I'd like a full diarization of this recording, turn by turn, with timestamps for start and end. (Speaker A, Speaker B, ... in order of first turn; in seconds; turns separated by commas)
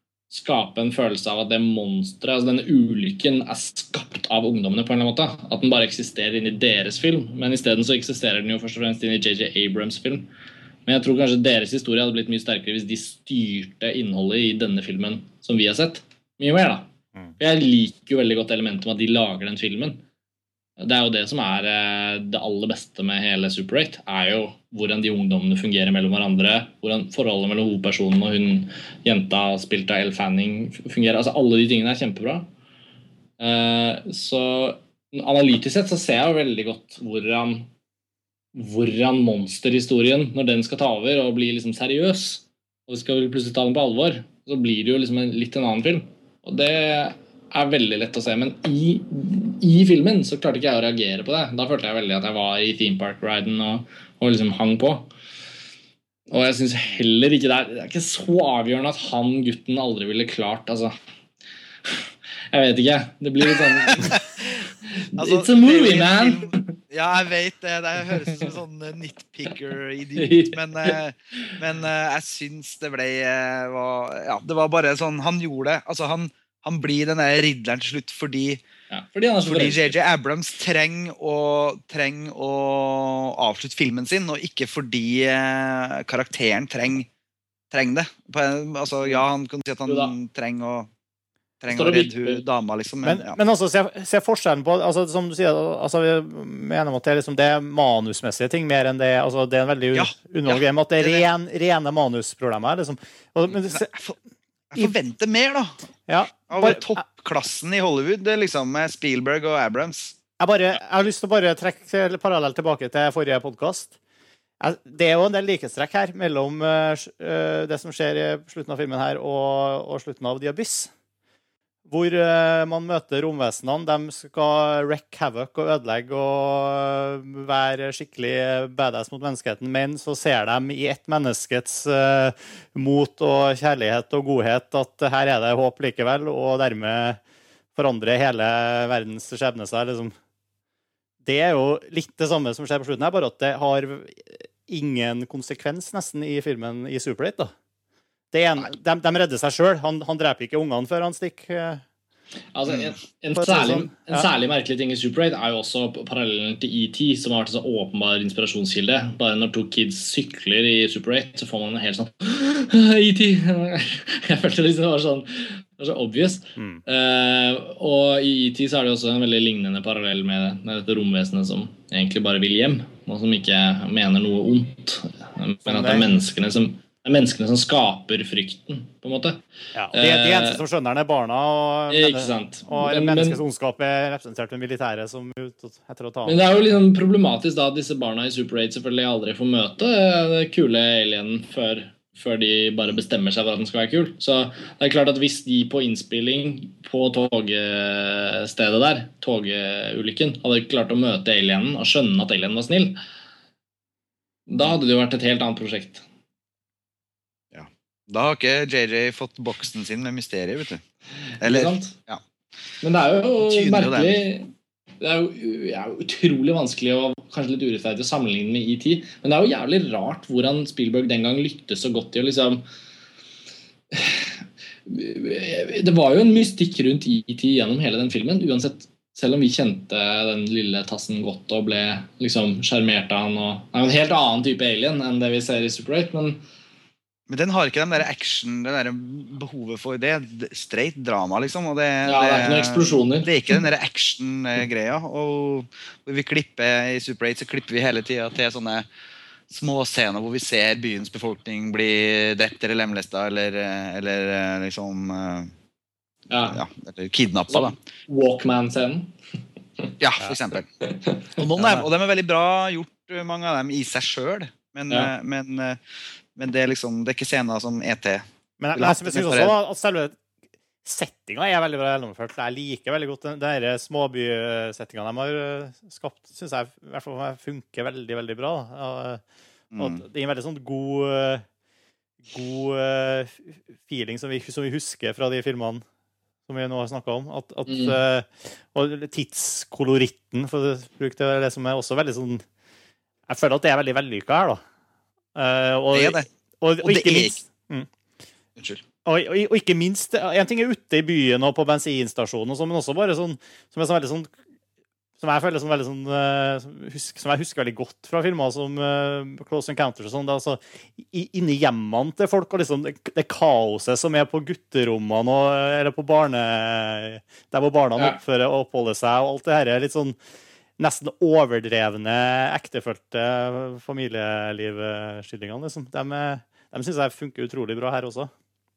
Speaker A: 0.3-10.3, Speaker A: 10.8-20.0, Speaker A: 20.8-32.5, Speaker A: 33.4-37.7, Speaker A: 38.5-55.1, Speaker A: 56.3-61.0, Speaker A: 61.9-64.2, Speaker B: 64.0-64.2, Speaker A: 64.8-66.8, Speaker B: 65.2-78.6, Speaker A: 70.2-71.0, Speaker A: 78.9-80.0, Speaker B: 79.4-87.1, Speaker B: 87.7-90.9, Speaker A: 89.9-90.1, Speaker B: 91.6-93.4, Speaker A: 91.7-92.4, Speaker C: 93.0-103.9, Speaker B: 99.9-101.3, Speaker B: 103.7-104.2, Speaker B: 104.7-105.9, Speaker C: 106.1-107.0, Speaker B: 106.5-110.2, Speaker C: 110.4-113.9, Speaker C: 114.6-120.9, Speaker C: 121.9-137.2, Speaker C: 137.7-140.1, Speaker C: 141.2-147.5, Speaker C: 148.3-151.8, Speaker A: 152.5-179.4, Speaker C: 153.3-154.2, Speaker C: 175.7-176.1, Speaker C: 179.7-186.4, Speaker A: 179.9-180.6, Speaker A: 181.9-183.4, Speaker A: 186.2-203.0, Speaker A: 204.5-206.0, Speaker B: 207.5-210.8, Speaker B: 211.4-212.2, Speaker A: 211.4-211.9, Speaker A: 212.8-222.6, Speaker B: 213.4-214.2, Speaker A: 223.9-224.3, Speaker A: 224.8-236.4, Speaker B: 237.3-248.9, Speaker A: 242.1-243.3, Speaker B: 249.5-255.5, Speaker A: 256.3-256.6, Speaker B: 256.5-257.8, Speaker A: 257.5-259.1, Speaker B: 260.0-260.7, Speaker A: 260.8-261.9, Speaker B: 261.4-265.8, Speaker B: 266.4-269.5, Speaker C: 268.6-270.2, Speaker C: 270.8-279.2, Speaker B: 279.7-280.0, Speaker C: 279.8-281.4, Speaker C: 282.3-285.8, Speaker C: 286.5-292.4, Speaker A: 287.7-288.0, Speaker C: 293.3-294.6, Speaker C: 295.3-297.9, Speaker B: 295.9-296.3, Speaker B: 296.8-297.4, Speaker B: 298.6-298.8, Speaker C: 299.0-304.3, Speaker C: 305.2-320.2, Speaker C: 320.8-328.3